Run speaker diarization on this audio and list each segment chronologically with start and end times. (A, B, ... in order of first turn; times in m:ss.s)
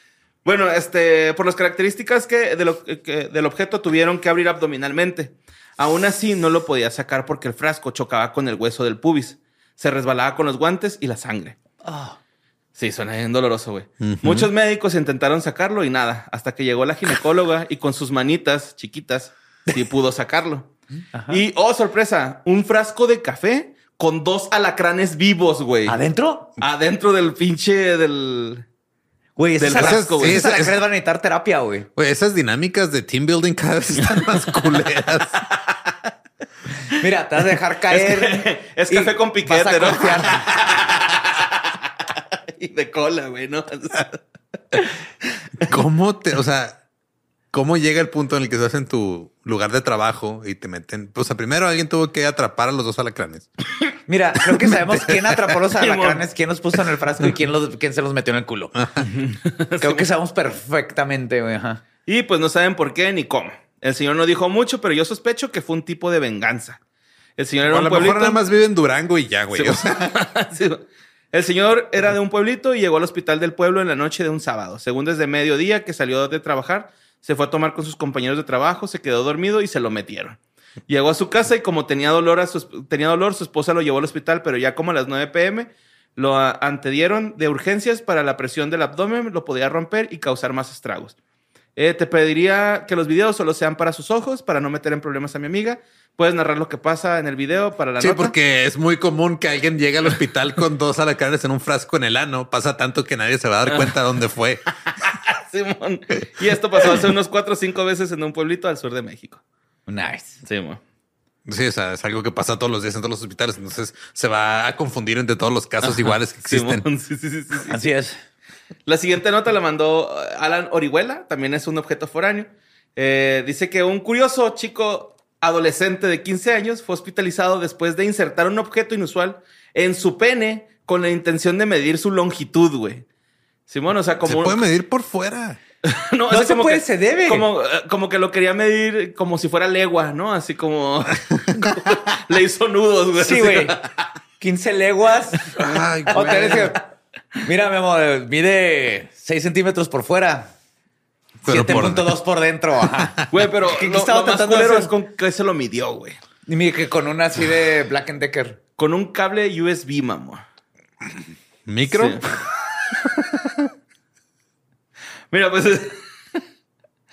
0:00.4-0:11.6 A
0:11.8-0:12.2 B
0:12.8-0:20.7 A
0:14.0-0:14.5 C
0:21.1-0:21.4 B
0:21.3-0:26.0 A
0:25.9-0:26.5 B
0:26.6-0:28.6 A
0:29.4-0:31.9 B
0:29.6-0:30.5 A
0:29.7-0:30.8 C
0:32.0-0:35.4 C
0:36.9-0:40.4 B
0:37.9-0:41.8 A
0:42.5-0:44.2 A
0:45.7-0:46.8 C
0:47.5-0:53.5 C
0:54.1-0:58.7 B
0:55.8-0:56.2 A
0:58.8-0:59.0 C
0:59.0-1:00.1 A
0:59.8-1:01.8 B
1:02.1-1:06.8 A
1:07.4-1:08.4 A
1:07.7-1:10.1 C
1:09.5-1:31.2 A
1:31.8-1:38.4 A
1:38.0-1:44.6 C
1:45.0-1:49.4 A
1:49.9-1:50.4 B
1:50.4-1:50.8 A
1:51.5-1:56.8 C
1:56.4-1:57.8 A
1:57.7-1:58.2 B
1:58.9-2:13.1 A
2:13.7-2:14.6 A
2:14.2-2:15.6 C
2:15.9-2:24.1 A
2:16.3-2:17.5 B
2:23.2-2:23.8 B
2:24.4-2:25.5 B
2:25.6-2:26.7 C
2:26.1-2:26.8 B
2:27.4-2:30.5 B
2:31.4-2:32.2 C
2:31.5-2:34.9 B
2:33.0-2:33.2 C
2:33.3-2:36.2 A
2:36.5-2:38.6 B
2:38.8-2:40.4 A
2:41.7-2:42.4 C
2:41.9-2:42.3 A
2:43.2-2:43.6 C
2:45.3-2:46.4 A